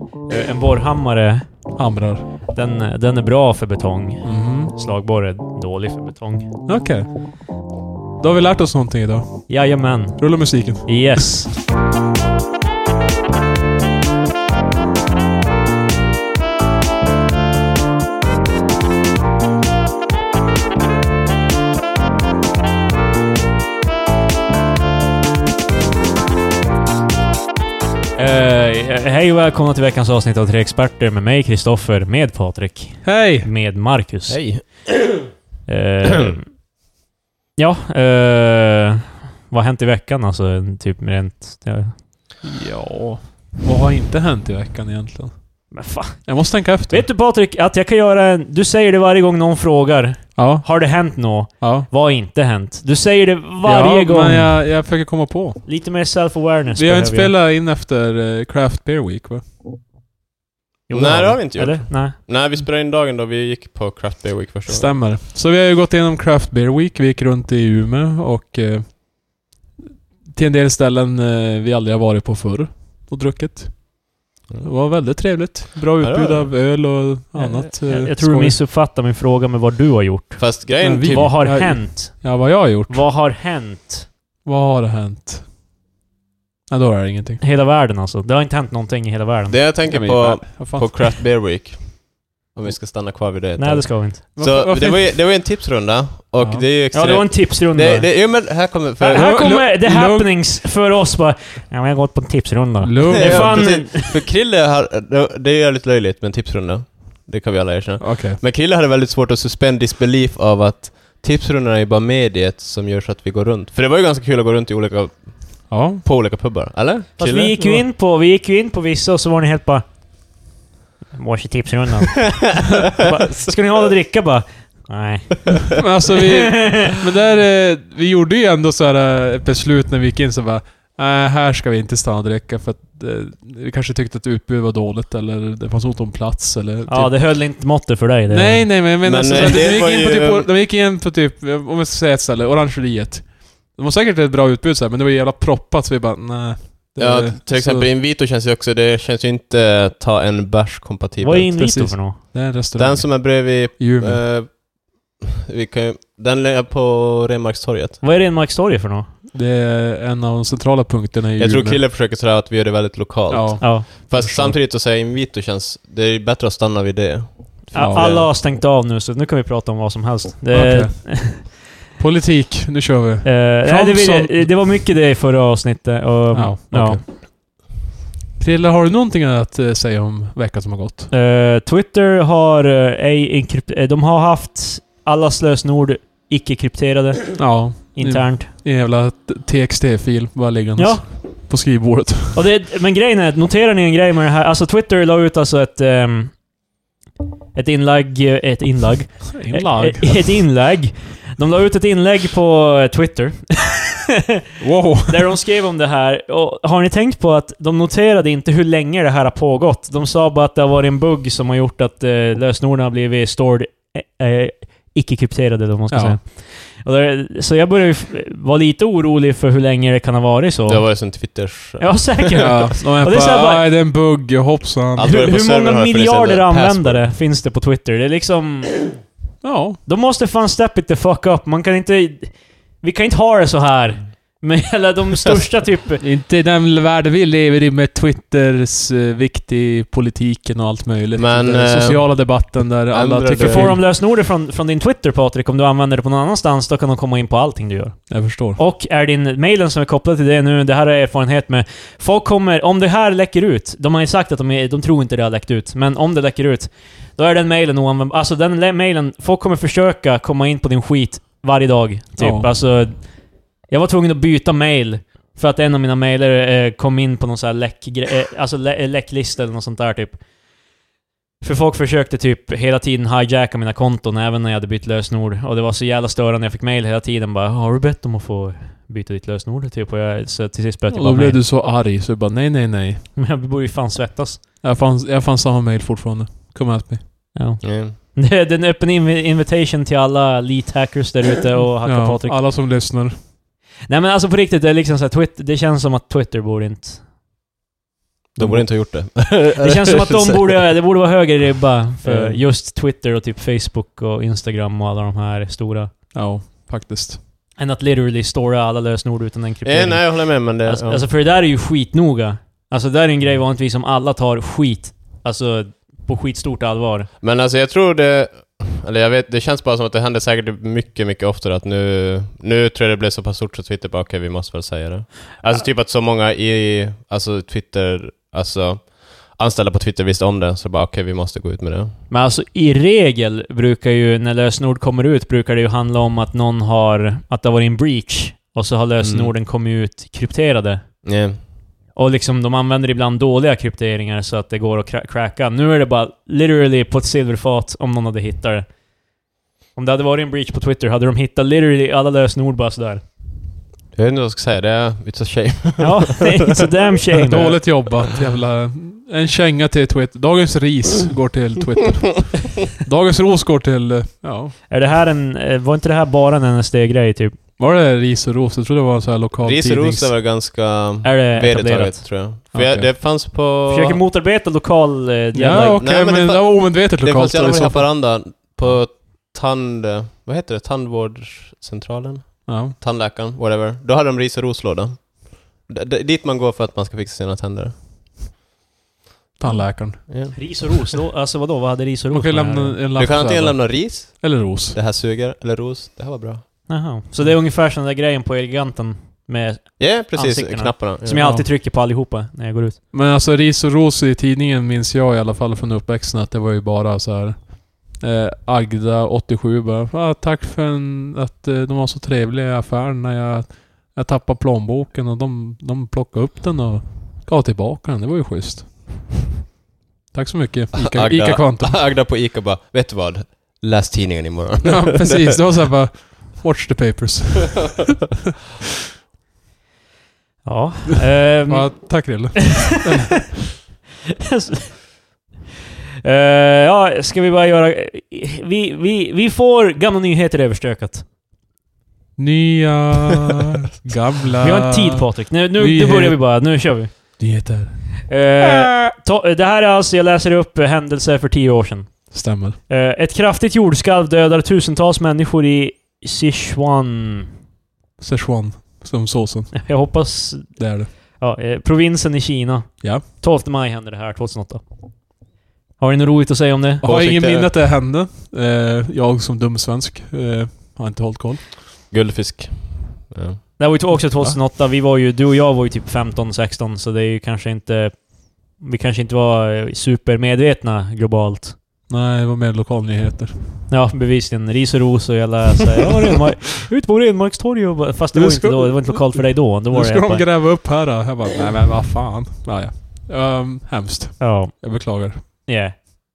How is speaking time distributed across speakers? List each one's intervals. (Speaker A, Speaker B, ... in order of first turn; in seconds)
Speaker A: 0.3-1.5, 2.5-6.5, 9.5-11.6, 28.2-34.7, 35.7-36.5, 37.6-42.0, 45.7-54.6, 55.6-57.3, 60.9-62.2, 77.3-84.1, 87.4-89.6, 93.6-94.2, 96.9-104.2, 117.2-119.8, 121.1-126.9, 136.9-138.7, 151.2-152.2, 158.0-159.1, 163.6-163.8, 167.7-171.4, 173.2-177.0, 181.1-188.5, 190.8-191.5, 192.3-196.4, 197.5-204.2, 205.0-223.7, 225.0-228.9, 229.8-236.0, 243.3-270.2, 271.4-281.4, 283.1-284.4, 287.3-292.4, 293.9-297.0, 298.4-305.9, 307.6-317.1, 332.1-340.8, 341.9-348.7, 349.7-353.0, 355.8-357.7, 364.7-367.4, 371.0-372.2, 373.7-375.8, 389.5-392.8, 396.7-402.8, 430.4-432.5, 434.2-435.0, 436.0-441.0, 444.4-447.0, 448.1-457.3, 459.5-464.6, 465.8-466.8, 473.6-481.6, 483.7-490.2, 494.2-495.7
Speaker B: 1.8-2.2, 4.2-4.7, 6.7-7.3, 8.2-11.3, 33.0-33.5, 42.4-45.7, 46.2-47.1, 50.4-50.8, 51.6-51.9, 53.6-55.6, 56.8-59.5, 64.7-69.5, 70.2-74.1, 74.6-78.6, 80.8-83.1, 84.4-85.5, 86.7-87.4, 89.8-91.1, 94.3-95.1, 96.4-96.6, 99.1-100.3, 102.8-103.7, 108.0-108.4, 115.7-116.0, 125.7-137.1, 138.3-147.9, 151.6-154.2, 159.3-161.8, 163.3-164.6, 167.7-168.1, 170.5-174.7, 176.3-177.0, 178.4-181.1, 187.4-192.4, 199.3-200.4, 204.6-205.3, 215.9-216.2, 222.3-225.1, 229.4-229.8, 236.0-243.8, 248.1-248.6, 262.2-262.5, 280.9-283.0, 284.6-287.0, 291.8-293.2, 306.1-307.2, 357.2-364.6, 367.6-370.1, 372.5-372.9, 375.3-377.9, 382.5-382.8, 389.4-390.0, 392.1-394.8, 401.1-401.5, 402.9-419.1, 420.1-421.8, 424.6-427.9, 431.5-433.4, 442.2-446.2, 447.2-447.8, 448.4-448.7, 452.1-452.6, 458.0-459.6, 460.6-460.9, 466.8-471.4, 474.1-474.4, 481.9-483.4, 488.1-495.2
Speaker C: 34.3-35.3, 60.9-65.0, 76.0-76.5, 80.4-81.4, 89.5-99.4, 103.1-117.5, 139.0-140.5, 147.0-151.8, 152.7-158.0, 161.4-168.3, 220.7-222.5, 224.9-227.1, 241.2-243.8, 287.6-287.9, 298.4-300.6, 302.0-302.4, 309.6-311.1, 317.2-332.0, 339.0-339.3, 341.0-341.4, 353.9-356.6, 369.4-374.0, 375.6-387.8, 390.1-390.8, 392.9-396.4, 399.8-401.2, 420.7-425.2, 466.8-467.5, 471.9-473.4